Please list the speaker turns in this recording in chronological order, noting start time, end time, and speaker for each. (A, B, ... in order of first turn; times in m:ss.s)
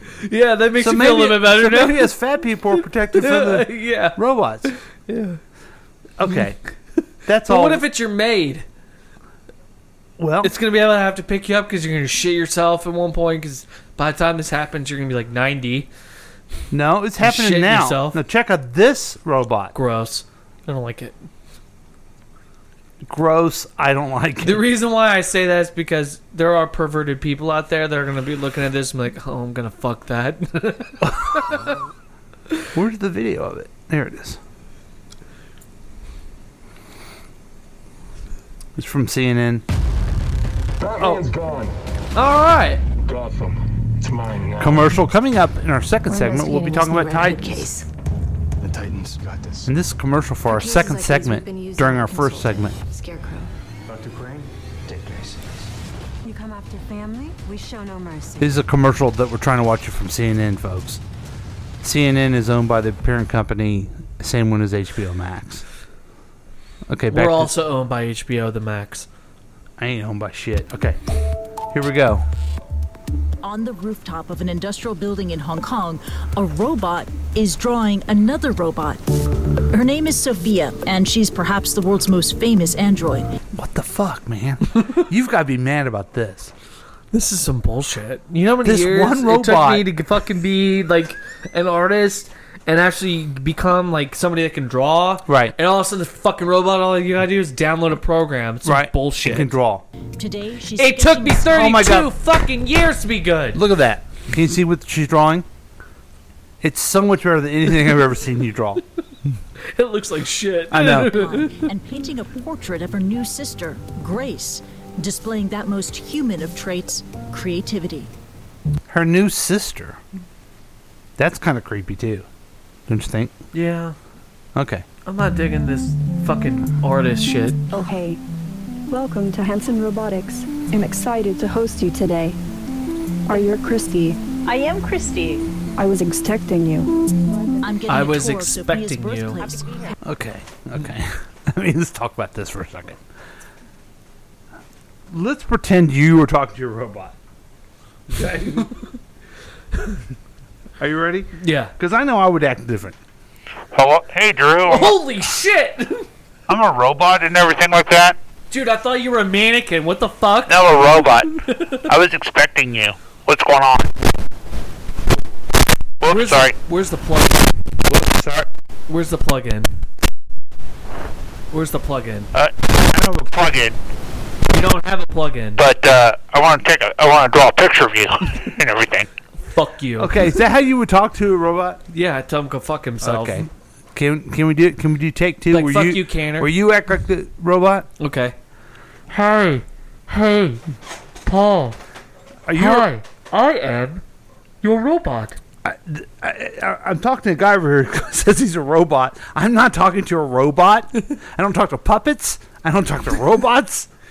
0:00.2-0:02.1 A
0:00.8-0:04.7 B
0:02.8-0:05.4 A
0:06.2-0:06.6 B
0:07.3-0:07.8 B
0:07.5-0:08.6 A
0:10.2-0:10.5 B
0:10.4-0:15.9 A
0:16.7-0:19.7 B
0:17.2-0:18.2 A
0:19.7-0:21.2 A
0:23.0-0:24.6 B
0:24.4-0:31.7 A
0:31.0-0:31.5 B
0:32.7-0:34.4 B
0:38.8-0:39.6 B
0:40.8-0:41.8 C
0:42.2-0:42.8 A
0:43.0-0:45.0 C
0:44.6-0:47.5 B
0:46.1-0:47.8 D
0:49.6-0:52.8 B
0:50.5-0:53.5 D
0:56.3-0:58.5 D
0:58.4-1:01.0 B
1:01.8-1:05.6 B
1:06.9-1:07.5 B
1:07.1-1:09.1 A
1:09.8-1:11.0 B
1:11.7-1:12.2 B
1:13.4-1:19.0 E
1:19.7-1:23.3 E
1:23.5-1:26.5 B
1:27.1-1:39.6 A
1:28.6-1:29.9 B
1:35.3-1:35.6 B
1:38.6-1:39.9 B
1:40.2-1:41.7 E
1:40.8-1:43.6 A
1:41.5-1:42.1 B
1:43.5-1:45.4 B
1:46.6-1:48.8 B
1:49.7-1:51.6 A
1:50.7-1:51.2 B
1:51.1-1:58.1 E
1:58.9-2:00.0 B
2:01.2-2:02.3 B
2:02.9-2:03.3 B
2:03.5-2:04.0 A
2:04.6-2:04.8 B
2:05.1-2:07.6 A
2:07.7-2:08.2 F
2:08.9-2:12.4 F
2:13.3-2:14.2 F
2:15.8-2:16.9 F
2:17.6-2:19.9 E
2:17.9-2:19.5 A
2:20.0-2:23.0 B
2:25.1-2:27.2 B
2:28.1-2:28.7 B
2:30.8-2:33.0 B
2:31.4-2:31.7 A
2:33.7-2:35.0 G
2:34.7-2:36.1 A
2:36.5-2:37.1 B
2:36.5-2:38.2 G
2:38.5-2:41.9 A
2:40.5-2:41.3 G
2:41.9-2:43.9 G
2:46.0-2:46.6 G
2:46.0-2:47.6 A
2:47.9-2:48.5 B
2:48.9-2:49.8 A
2:51.5-2:52.3 A
2:52.3-2:53.8 G
2:54.5-2:55.7 A
2:55.6-2:59.1 G
2:59.5-3:00.3 A
3:00.0-3:01.8 B
3:01.9-3:03.5 A
3:03.0-3:07.9 B
3:05.5-3:06.5 A
3:08.0-3:08.4 A
3:12.5-3:13.0 B
3:15.0-3:15.2 A
3:15.6-3:23.9 B